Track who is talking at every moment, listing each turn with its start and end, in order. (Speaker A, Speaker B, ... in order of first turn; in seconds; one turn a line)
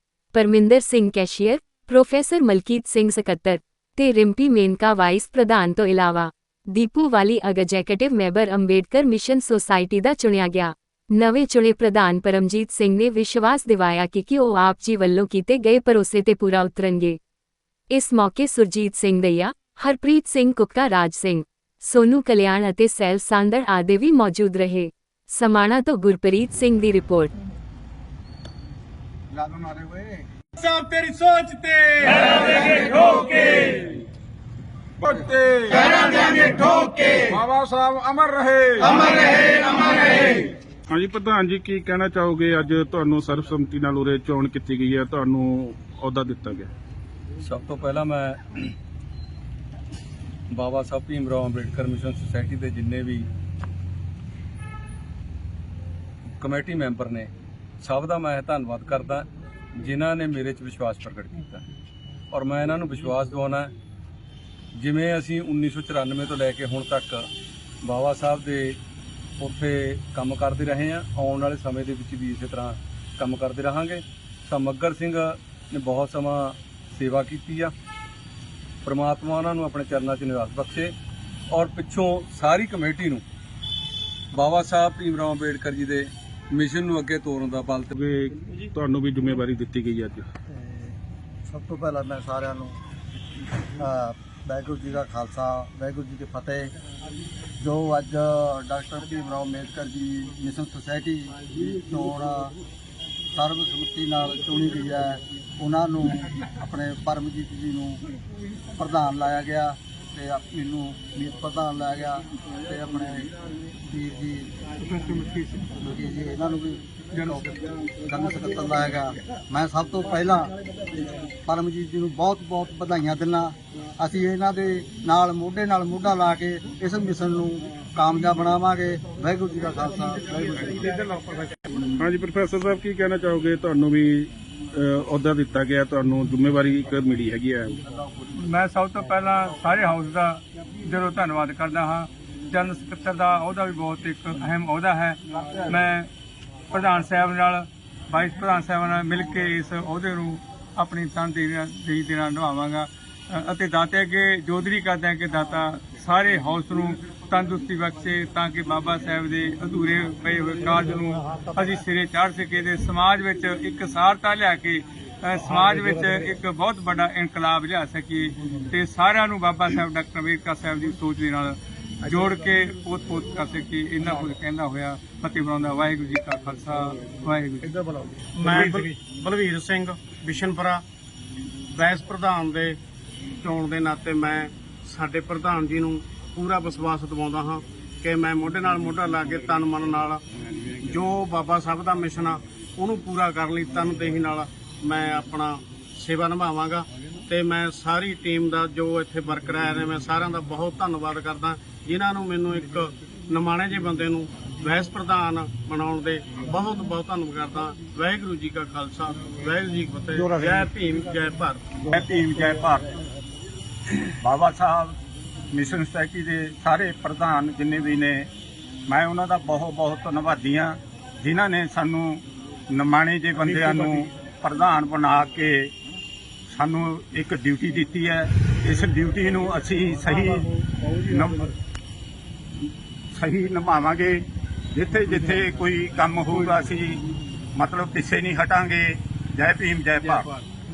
Speaker A: 0.3-17.2
Speaker A: 17.9-27.3
Speaker B: 29.3-30.2
Speaker C: 35.2-35.8
Speaker C: 37.3-37.8
Speaker C: 38.5-38.9
Speaker C: 40.9-46.7
Speaker D: 47.4-48.6
Speaker D: 50.5-53.3
Speaker D: 56.4-57.3
Speaker D: 57.8-61.7
Speaker D: 62.3-63.7
Speaker D: 64.8-67.3
Speaker D: 67.8-68.8
Speaker D: 69.4-77.7
Speaker D: 78.8-80.9
Speaker D: 81.5-83.2
Speaker D: 84.3-87.9
Speaker C: 87.9-90.3
Speaker B: 90.5-92.8
Speaker B: 93.8-96.7
Speaker B: 97.6-102.5
Speaker B: 103.3-108.0
Speaker B: 108.8-113.3
Speaker B: 113.9-114.5
Speaker E: 114.9-115.7
Speaker B: 115.8-120.5
Speaker E: 117.2-117.4
Speaker B: 121.5-131.1
Speaker C: 132.0-137.8
Speaker B: 137.9-138.3
Speaker E: 138.4-146.1
Speaker E: 146.7-177.7
Speaker F: 178.3-180.8
Speaker F: 181.7-182.8
Speaker F: 183.4-190.2
Speaker F: 190.8-211.7
Speaker G: 211.9-212.9
Speaker G: 214.2-215.0
Speaker G: 215.5-218.3
Speaker G: 218.9-225.7
Speaker G: 226.5-230.5
Speaker G: 231.0-231.5
Speaker G: 233.1-237.0
Speaker G: 237.6-240.3